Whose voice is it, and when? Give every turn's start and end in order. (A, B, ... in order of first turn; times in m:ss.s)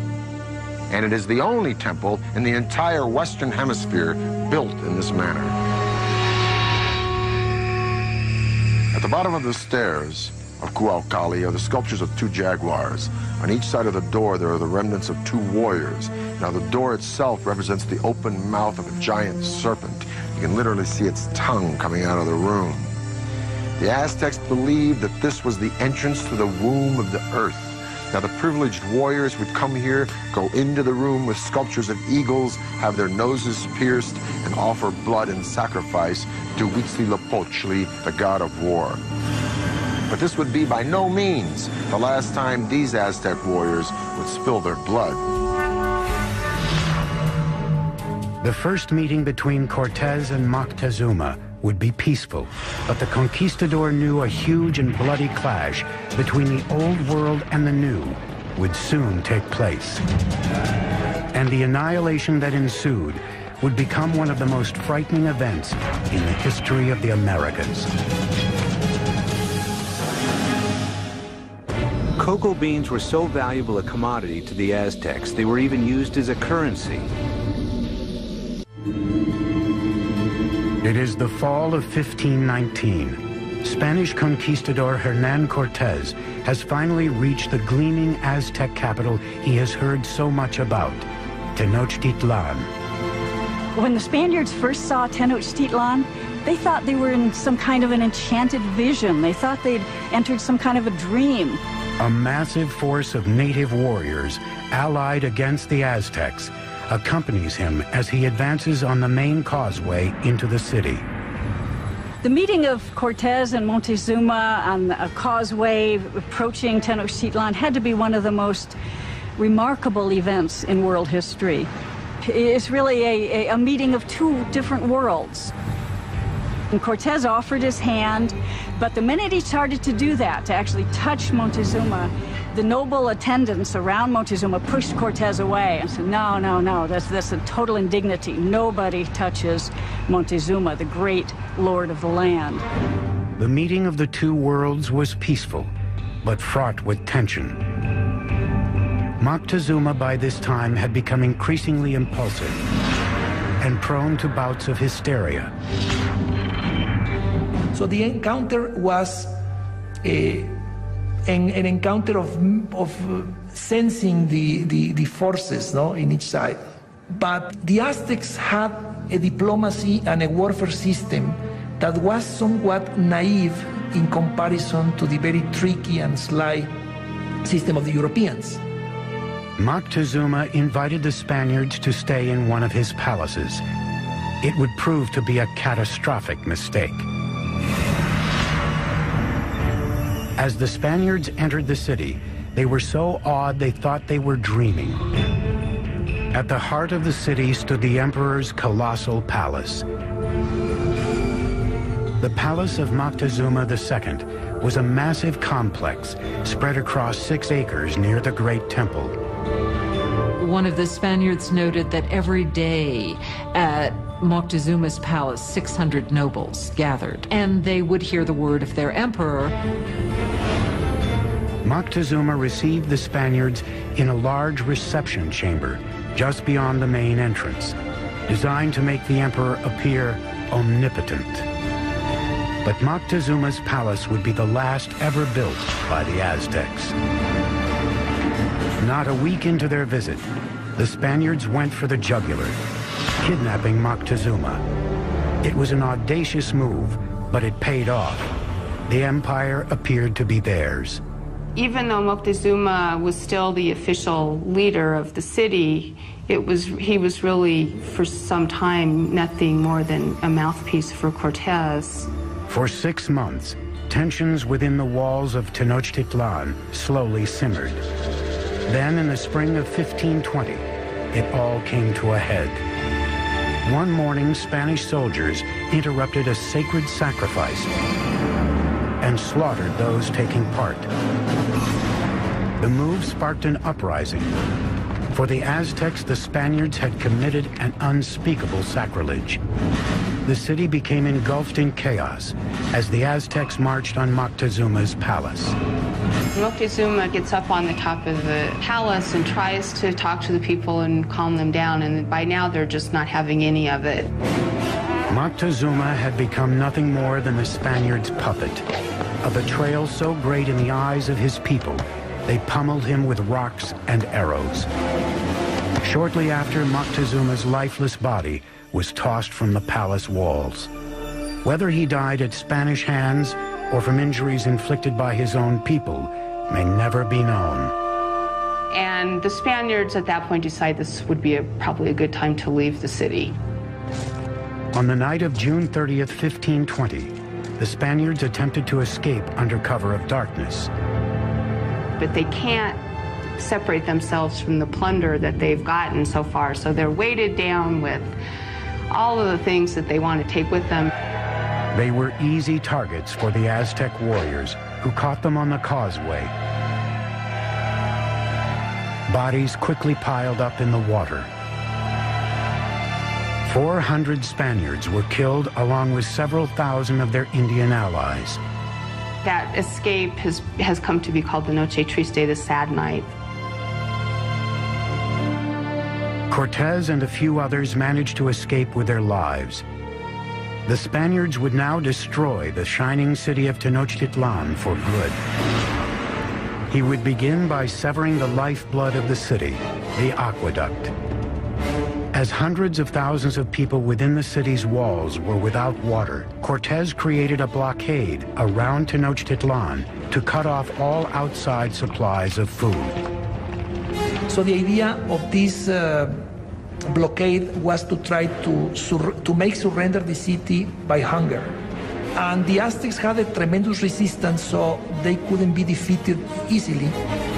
0:00.9-0:05.6 A
0:08.9-0:22.9 A
0:23.8-0:39.0 A
0:40.1-0:45.2 A
0:48.4-1:00.0 B
1:01.3-1:07.9 B
1:12.2-1:17.1 C
1:20.8-1:32.7 B
1:33.8-1:41.6 D
1:42.0-1:51.1 B
1:52.2-1:58.8 D
1:59.4-2:01.7 D
2:02.2-2:05.5 D
2:06.7-2:22.6 D
2:23.4-2:27.6 B
2:29.2-2:32.6 B
2:33.6-2:35.5 B
2:37.7-2:39.4 E
2:40.0-2:40.6 E
2:41.3-2:56.8 E
2:57.4-2:58.6 E
2:59.6-3:03.6 B
3:04.4-3:07.1 B
3:10.4-3:15.0 B
3:16.3-3:19.9 B
3:22.2-3:29.2 B
3:30.4-3:39.6 F
3:41.6-3:47.8 B
3:48.3-3:51.5 B
3:52.6-3:57.0 B
3:58.8-4:02.6 B
4:03.2-4:04.6 B
4:05.4-4:08.3 B
4:08.9-4:11.0 B
4:11.6-4:22.1 G
4:22.5-4:27.8 B
4:28.7-4:32.6 B
4:33.6-4:37.7 B
4:39.0-4:40.9 B
4:42.6-4:44.4 B
4:45.1-4:49.4 B
4:50.2-4:55.6 B
4:56.3-5:04.1 G
5:05.1-5:08.7 B
5:09.2-5:14.7 B
5:15.8-5:20.7 B
5:21.4-5:27.8 B
5:28.7-5:33.4 G
5:34.7-5:40.7 B
5:42.0-5:42.8 G
5:43.4-5:48.1 G
5:48.9-5:50.9 G
5:51.7-5:56.3 B
5:59.1-6:01.3 B
6:03.4-6:08.4 B
6:09.2-6:13.1 G
6:16.3-6:19.6 B
6:20.7-6:25.2 B
6:26.7-6:30.9 B
6:32.1-6:43.0 B
6:44.3-6:46.3 E
6:46.9-6:51.5 E
6:52.2-6:57.0 E